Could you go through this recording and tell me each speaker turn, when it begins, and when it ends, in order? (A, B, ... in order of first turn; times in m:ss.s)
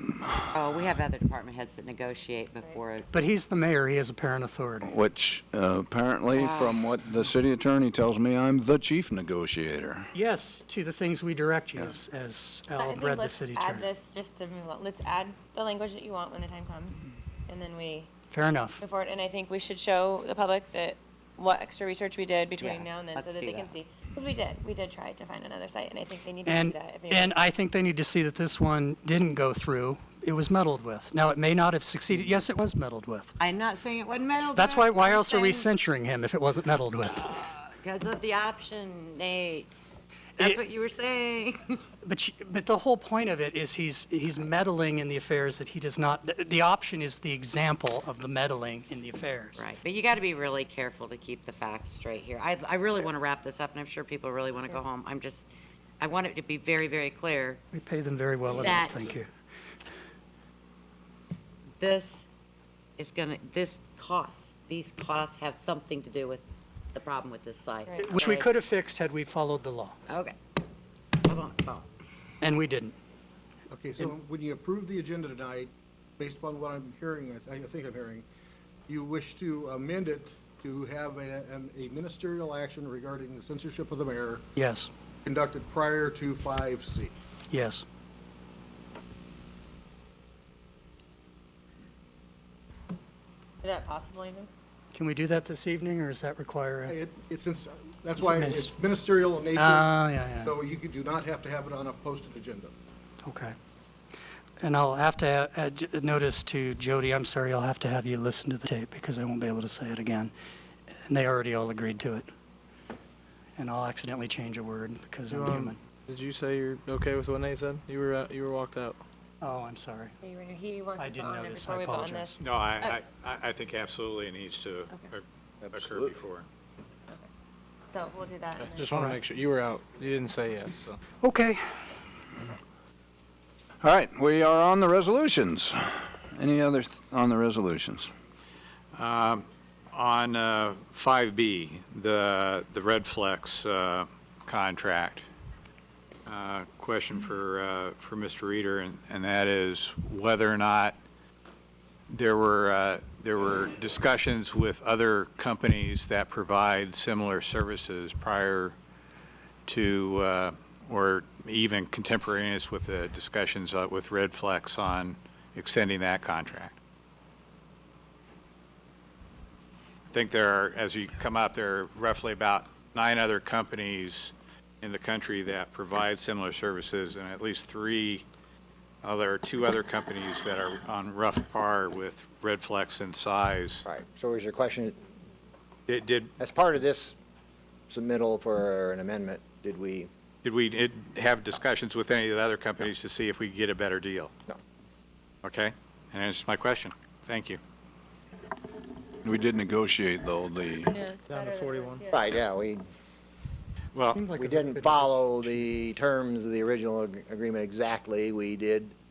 0:00.3-0:00.9 A
0:00.5-0:03.1 B
0:03.1-0:04.9 C
0:04.8-0:10.1 A
0:06.3-0:06.8 B
0:10.1-0:13.9 C
0:12.8-0:18.1 D
0:18.3-0:18.8 C
0:18.8-0:27.4 D
0:22.6-0:23.7 B
0:26.4-0:33.3 C
0:33.4-0:35.7 B
0:34.6-0:37.2 C
0:37.2-0:39.7 B
0:40.4-0:41.8 B
0:42.0-0:49.6 C
0:49.6-0:55.5 B
0:56.0-0:57.6 B
0:57.7-0:59.3 C
0:58.5-0:59.2 B
1:01.8-1:02.3 B
1:03.0-1:08.5 B
1:07.9-1:08.2 D
1:08.0-1:10.0 C
1:10.1-1:10.4 B
1:11.2-1:11.9 B
1:12.4-1:13.0 C
1:13.7-1:18.2 E
1:18.9-1:24.4 E
1:24.6-1:24.9 C
1:25.2-1:27.1 E
1:27.5-1:27.8 C
1:33.6-1:34.5 D
1:34.9-1:37.0 C
1:36.9-1:42.7 E
1:38.2-1:38.7 C
1:39.6-1:40.5 C
1:43.2-1:43.6 C
1:44.6-1:50.3 C
1:51.1-1:52.3 C
1:53.6-1:55.8 C
1:55.3-1:59.0 F
1:59.4-2:00.2 C
2:00.2-2:03.0 D
2:01.0-2:02.4 C
2:02.4-2:06.5 G
2:07.9-2:09.0 D
2:08.6-2:11.0 F
2:08.9-2:09.2 C
2:11.2-2:11.8 C
2:13.8-2:18.1 A
2:18.9-2:25.2 G
2:26.3-2:31.0 G
2:32.1-2:38.8 G
2:39.7-2:46.8 G
2:50.1-2:58.3 G
2:59.0-3:03.8 G
3:03.8-3:05.0 H
3:05.9-3:06.3 G
3:06.4-3:07.2 H
3:07.9-3:10.1 H
3:10.4-3:14.3 G
3:15.4-3:17.6 G
3:19.2-3:21.0 A
3:20.9-3:22.4 D
3:21.3-3:22.0 F
3:22.1-3:22.8 H
3:23.9-3:24.2 G
3:24.1-3:25.7 C
3:24.2-3:28.9 H